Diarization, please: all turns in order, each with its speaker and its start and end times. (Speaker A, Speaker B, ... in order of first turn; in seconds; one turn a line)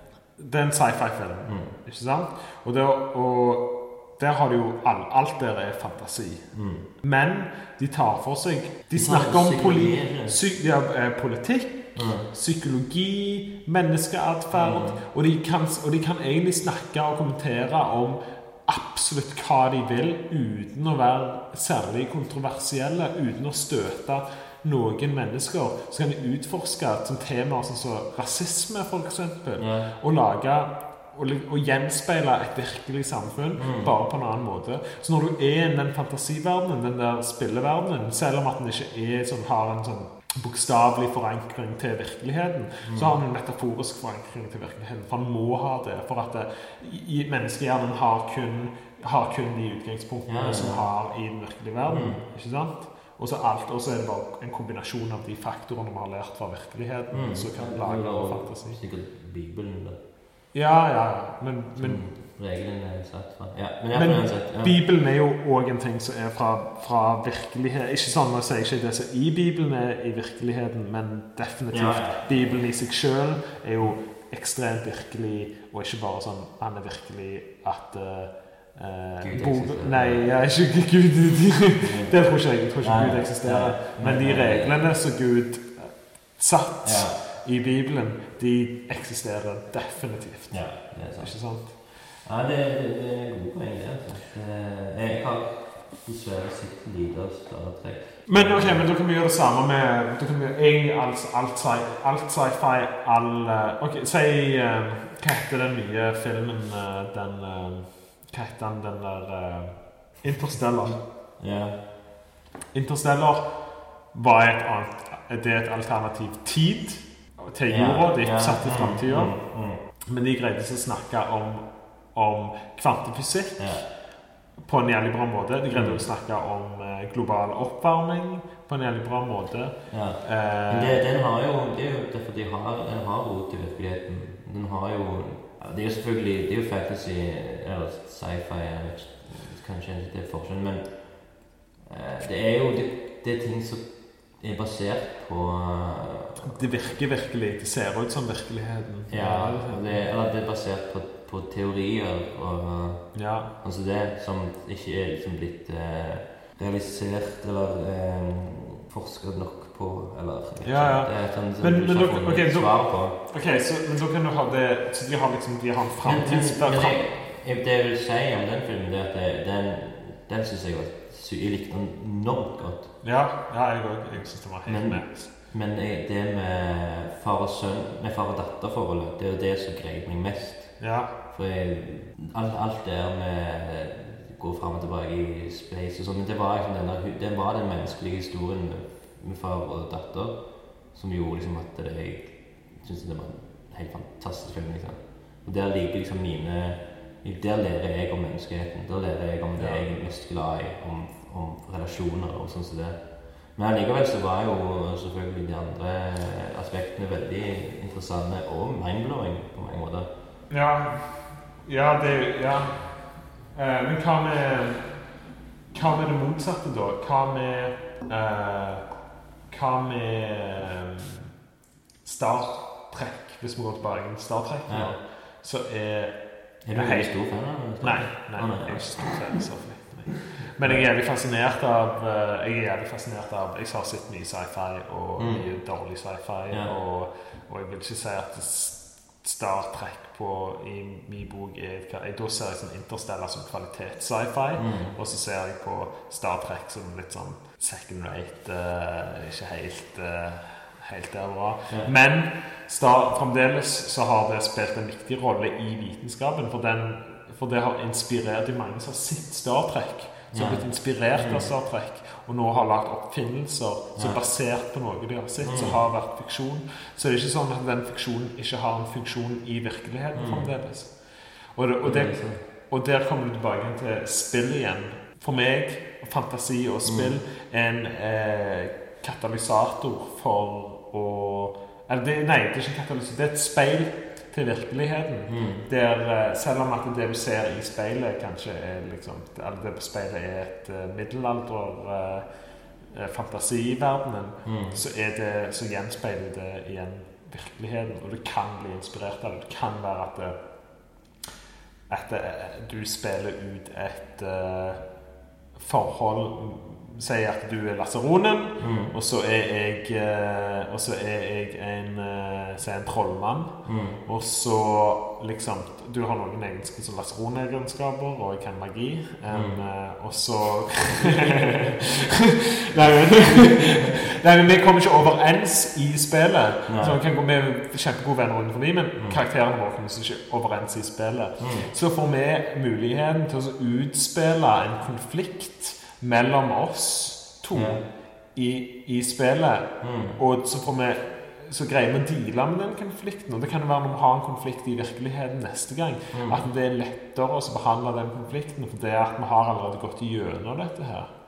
Speaker A: 0.3-58.8
Speaker B: 1.4-1.8
Speaker B: 6.5-6.9
Speaker B: 8.9-10.4
Speaker B: 11.9-12.3
Speaker B: 14.5-15.0
Speaker B: 29.6-29.9
Speaker B: 33.6-33.9
Speaker B: 42.8-43.1
Speaker B: 50.2-50.9
Speaker B: 51.9-52.2
Speaker B: 57.1-60.0
Speaker A: 60.5-62.1
Speaker B: 61.8-64.8
Speaker A: 63.9-91.8
Speaker B: 71.7-72.6
Speaker B: 79.2-80.4
Speaker B: 81.8-84.8
Speaker B: 86.8-87.2
Speaker B: 90.5-98.9
Speaker A: 98.2-111.0
Speaker B: 111.4-111.8
Speaker A: 112.7-124.0
Speaker B: 117.7-119.8
Speaker B: 123.6-123.8
Speaker A: 124.6-131.0
Speaker B: 125.7-126.0
Speaker B: 129.9-146.6
Speaker A: 146.4-150.1
Speaker B: 149.1-163.2
Speaker A: 153.1-153.5
Speaker A: 160.6-167.0
Speaker B: 166.0-173.0
Speaker A: 173.0-175.3
Speaker B: 174.6-210.1
Speaker A: 180.8-181.1
Speaker A: 199.6-199.9
Speaker A: 210.5-221.3
Speaker A: 222.0-300.4
Speaker B: 224.7-224.9
Speaker B: 226.6-229.2
Speaker B: 230.6-230.9
Speaker B: 235.2-235.4
Speaker B: 244.5-245.0
Speaker B: 260.3-261.5
Speaker B: 265.4-265.8
Speaker B: 270.1-270.5
Speaker B: 271.8-272.4
Speaker B: 276.8-277.1
Speaker B: 285.3-285.7
Speaker B: 294.4-294.8
Speaker A: 301.9-304.9
Speaker A: 305.5-351.1
Speaker B: 308.6-308.9
Speaker B: 313.6-314.0
Speaker B: 319.3-319.6
Speaker B: 326.7-327.0
Speaker B: 331.4-331.7
Speaker B: 337.5-337.8
Speaker B: 339.8-340.2
Speaker B: 346.1-346.4